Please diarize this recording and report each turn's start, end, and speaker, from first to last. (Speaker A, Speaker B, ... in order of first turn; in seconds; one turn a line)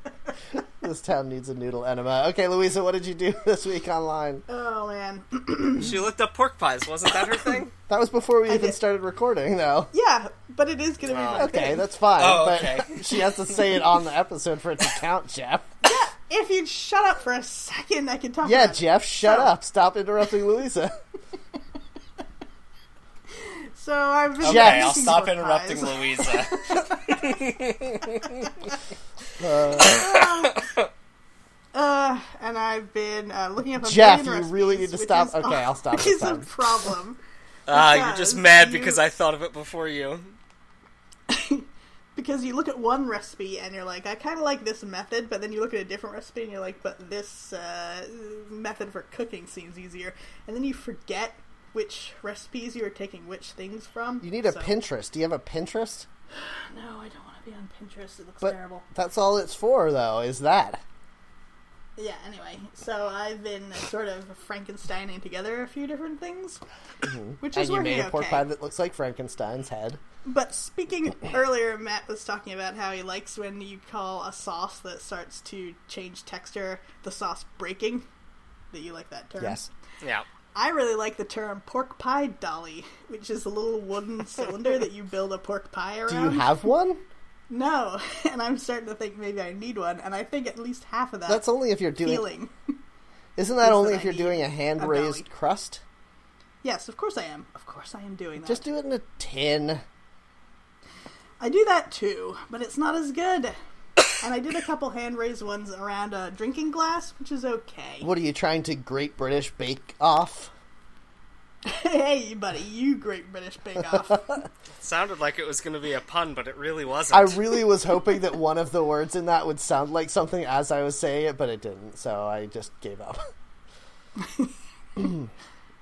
Speaker A: 0.6-4.5
Speaker B: 4.5-6.0
Speaker C: 5.8-7.7
Speaker A: 7.9-9.9
Speaker B: 8.5-8.8
Speaker B: 9.9-11.8
Speaker C: 11.1-11.6
Speaker A: 11.4-15.7
Speaker C: 12.2-13.0
Speaker B: 15.8-19.5
Speaker A: 18.4-20.9
Speaker B: 23.3-27.4
Speaker C: 24.4-28.5
Speaker A: 24.4-25.0
Speaker A: 29.4-30.1
Speaker B: 29.8-30.6
Speaker C: 29.8-30.9
Speaker B: 31.7-37.2
Speaker A: 33.8-36.6
Speaker C: 37.7-40.4
Speaker B: 37.7-39.0
Speaker B: 41.3-54.7
Speaker A: 54.2-56.1
Speaker B: 56.4-58.9
Speaker A: 58.4-60.8
Speaker B: 62.0-66.6
Speaker A: 67.0-70.0
Speaker B: 67.4-68.5
Speaker B: 70.2-78.1
Speaker B: 78.7-79.6
Speaker A: 79.4-79.7
Speaker B: 80.5-86.5
Speaker A: 86.1-87.0
Speaker B: 87.5-91.5
Speaker A: 91.3-92.3
Speaker B: 92.0-92.5
Speaker A: 93.4-95.8
Speaker B: 93.6-95.2
Speaker B: 96.6-98.6
Speaker A: 98.4-99.8
Speaker B: 101.4-103.6
Speaker B: 104.2-108.1
Speaker A: 108.0-110.5
Speaker B: 111.7-114.4
Speaker C: 114.8-117.4
Speaker A: 117.1-123.2
Speaker B: 124.2-124.5
Speaker A: 125.0-125.2